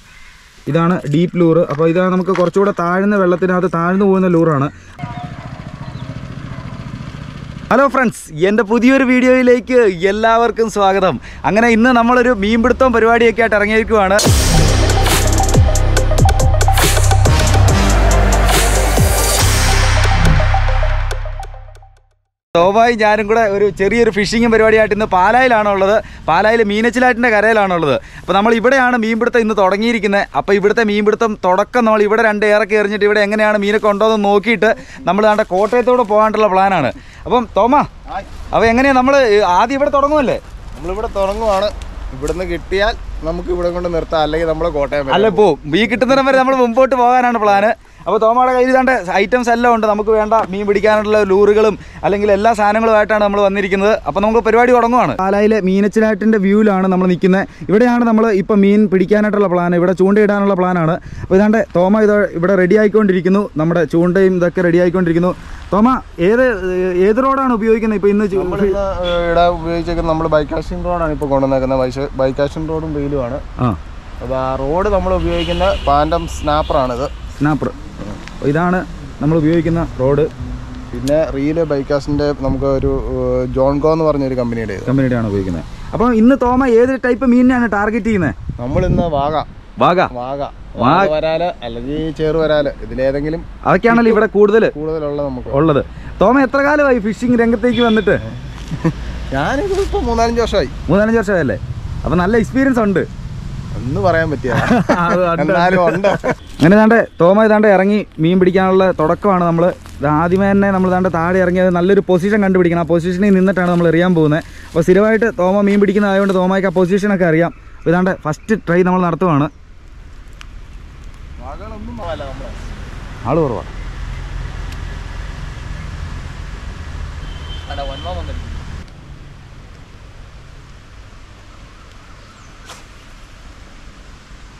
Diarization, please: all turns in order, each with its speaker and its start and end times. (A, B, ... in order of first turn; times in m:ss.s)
0:00.7-0:04.7 A
0:07.7-0:14.2 A
0:22.5-0:37.9 A
0:38.5-0:40.4 A
0:40.7-0:46.4 B
0:45.1-1:08.8 A
1:08.3-1:13.4 B
1:14.2-1:17.1 B
1:17.4-1:17.7 A
1:18.4-1:20.3 A
1:20.9-1:24.9 B
1:24.8-1:28.3 A
1:28.6-1:29.5 B
1:29.8-1:30.1 A
1:30.1-1:35.6 B
1:30.8-1:31.1 A
1:33.6-1:34.7 A
1:35.5-1:38.2 A
1:38.6-1:40.7 B
1:40.9-1:43.0 A
1:43.7-1:46.4 B
1:44.5-1:59.5 A
2:01.4-2:02.8 B
2:03.2-2:03.7 A
2:07.6-2:08.6 B